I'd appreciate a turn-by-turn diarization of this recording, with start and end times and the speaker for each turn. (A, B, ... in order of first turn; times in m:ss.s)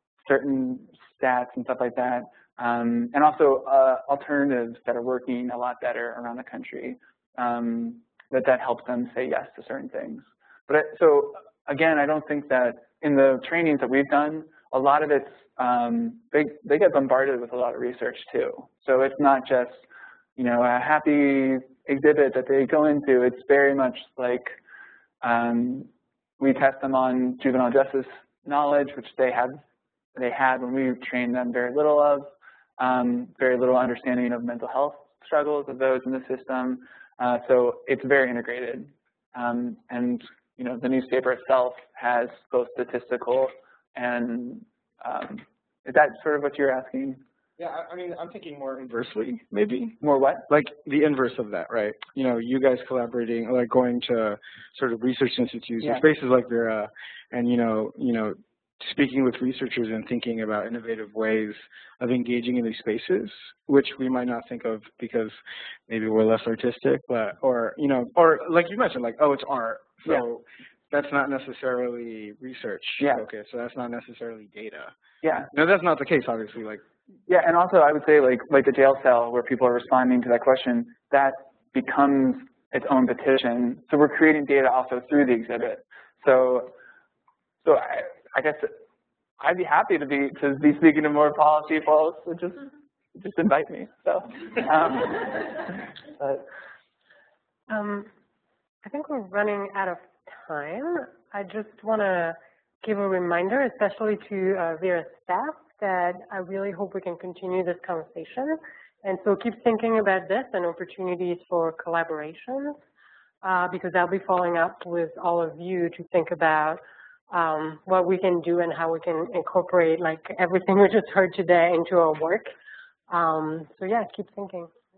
0:00.2-0:19.8 A
0:20.4-0:24.6 A
0:25.2-0:29.6 A
0:30.2-0:47.2 A
0:47.6-0:50.0 B
0:50.0-0:50.4 A
0:50.5-1:14.9 B
1:13.0-1:13.2 A
1:15.2-1:15.5 A
1:15.5-1:16.8 B
1:17.3-1:26.7 A
1:27.6-1:28.7 A
1:29.4-1:36.4 A
1:37.7-1:38.1 C
1:38.8-1:52.8 C
1:53.4-2:02.5 C
2:03.1-2:04.7 C